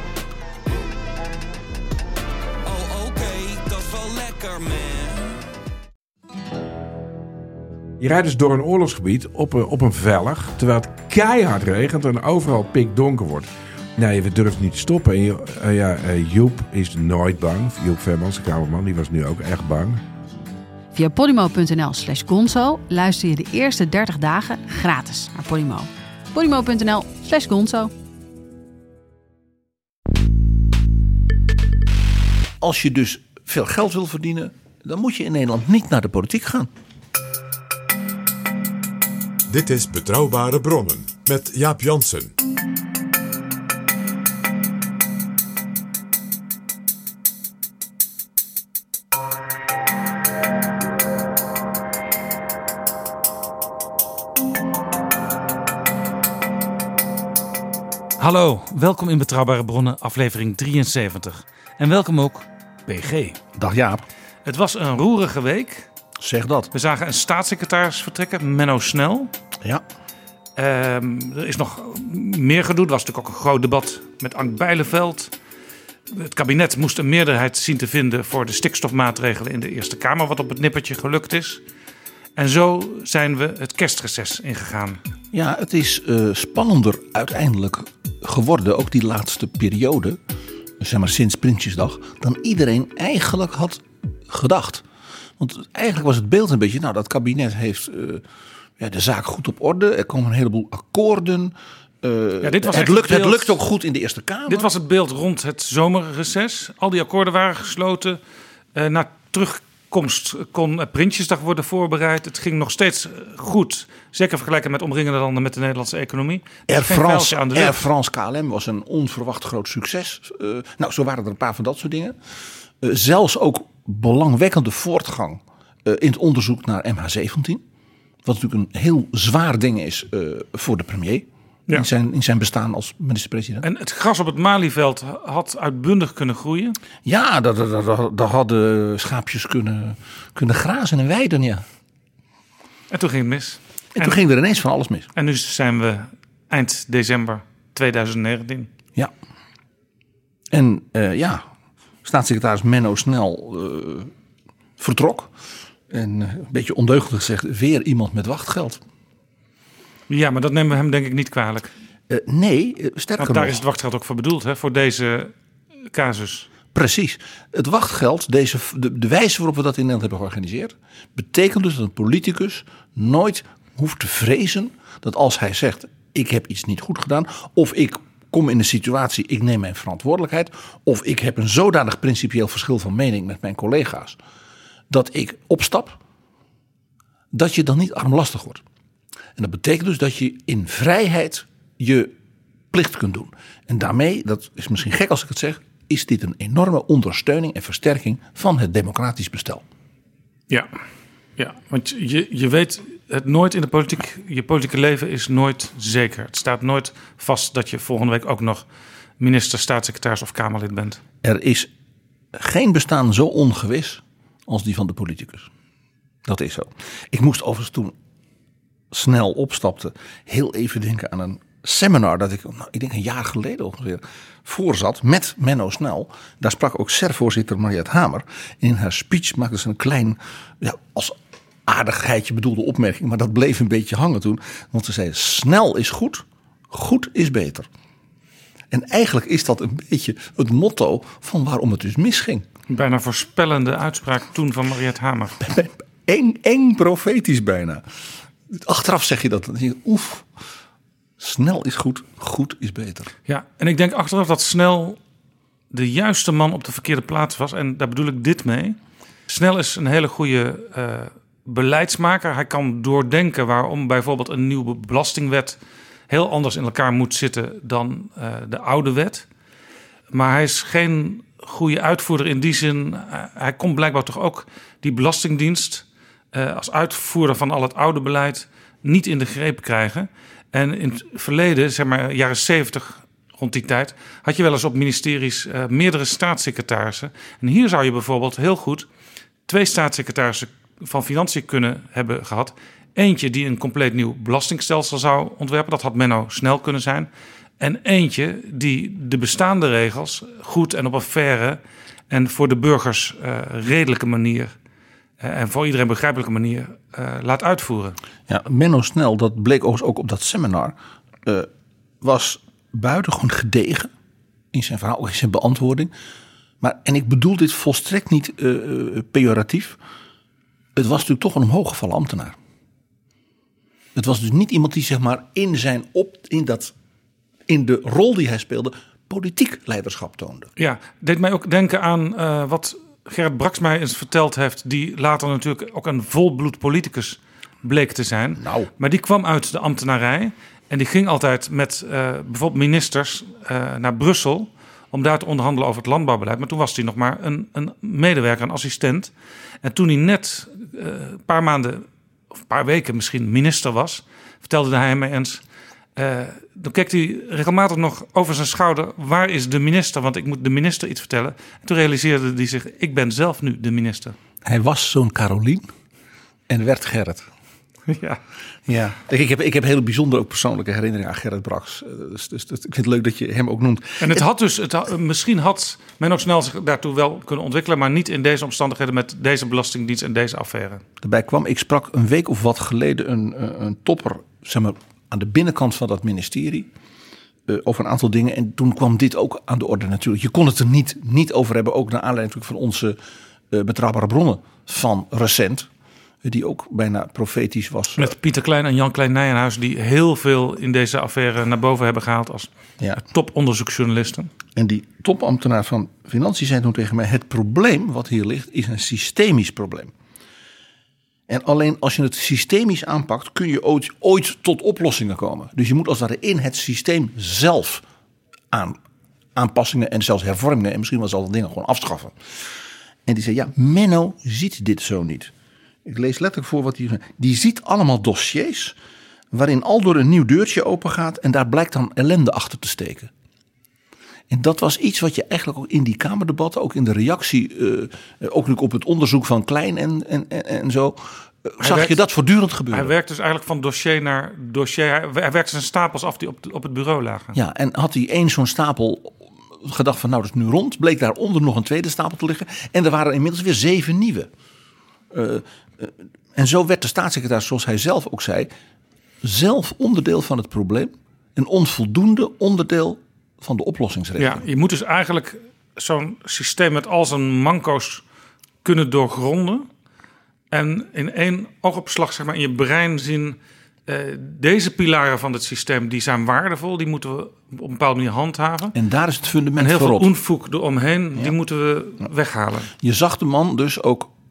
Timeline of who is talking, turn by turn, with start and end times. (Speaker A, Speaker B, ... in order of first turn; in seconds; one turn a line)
Speaker A: 2.6-5.4
Speaker B: 8.0-20.0
Speaker C: 20.9-27.9
Speaker D: 32.6-36.7
Speaker E: 39.5-42.3
Speaker F: 58.2-63.4
Speaker D: 63.5-64.0
Speaker F: 64.4-65.9
Speaker D: 66.2-66.7
Speaker F: 66.7-69.3
Speaker F: 70.6-75.3
Speaker F: 76.1-81.6
Speaker F: 82.3-85.0
Speaker D: 85.3-90.2
Speaker D: 90.8-94.8
Speaker D: 95.4-98.2
Speaker D: 98.8-104.7
Speaker F: 102.4-103.6
Speaker F: 104.5-108.2
Speaker F: 108.7-117.8
Speaker D: 116.7-122.2
Speaker D: 122.8-127.6
Speaker D: 128.2-133.6
Speaker F: 133.6-136.8
Speaker D: 137.0-141.6
Speaker F: 142.9-144.2
Speaker D: 143.9-145.1
Speaker F: 145.1-148.7
Speaker D: 150.5-151.4
Speaker D: 152.0-154.1
Speaker D: 154.8-155.3
Speaker D: 155.9-158.8
Speaker F: 160.1-161.7
Speaker D: 162.1-163.6
Speaker F: 163.2-165.3
Speaker F: 165.9-166.5
Speaker D: 166.7-184.2
Speaker D: 184.9-186.0
Speaker D: 187.3-188.6
Speaker D: 189.4-192.1
Speaker D: 192.7-199.6
Speaker F: 201.4-208.7
Speaker F: 209.2-211.0
Speaker D: 211.2-211.7
Speaker D: 212.3-215.5
Speaker D: 216.2-217.9
Speaker D: 218.9-237.7
Speaker D: 238.7-242.4
Speaker F: 242.7-245.4
Speaker D: 245.4-247.8
Speaker D: 248.5-250.3
Speaker D: 251.2-253.1
Speaker F: 253.3-255.0
Speaker F: 255.7-258.8
Speaker F: 259.3-265.6
Speaker F: 266.1-269.2
Speaker F: 270.1-288.9
Speaker F: 289.5-297.1
Speaker F: 297.6-304.5
Speaker F: 305.2-308.0
Speaker D: 308.3-311.5
Speaker D: 312.0-313.9
Speaker D: 314.5-315.9
Speaker D: 316.6-319.8
Speaker D: 320.7-322.4
Speaker D: 323.9-326.7
Speaker D: 327.5-330.5
Speaker F: 330.6-349.1
Speaker D: 338.4-338.7
Speaker F: 349.6-355.4
Speaker F: 355.9-364.1
Speaker D: 364.4-365.7
Speaker D: 366.5-367.3
Speaker F: 367.9-368.2
Speaker D: 368.6-374.2
Speaker F: 374.0-380.8
Speaker D: 381.0-386.7
Speaker D: 387.5-393.0
Speaker D: 393.5-395.7
Speaker D: 396.2-398.1
Speaker F: 397.9-402.5
Speaker F: 403.1-404.3
Speaker D: 404.6-409.9
Speaker D: 411.3-417.8
Speaker D: 418.5-418.8
Speaker D: 419.4-422.1
Speaker D: 423.1-425.3
Speaker D: 425.8-428.8
Speaker D: 429.3-433.1
Speaker D: 434.3-442.9
Speaker F: 441.6-442.0
Speaker F: 442.7-447.4
Speaker D: 447.3-454.3
Speaker D: 455.1-458.5
Speaker D: 459.2-464.4
Speaker F: 464.2-468.0
Speaker F: 468.6-469.7
Speaker F: 470.5-478.7
Speaker D: 478.7-480.1
Speaker F: 479.6-482.7
Speaker D: 482.8-484.1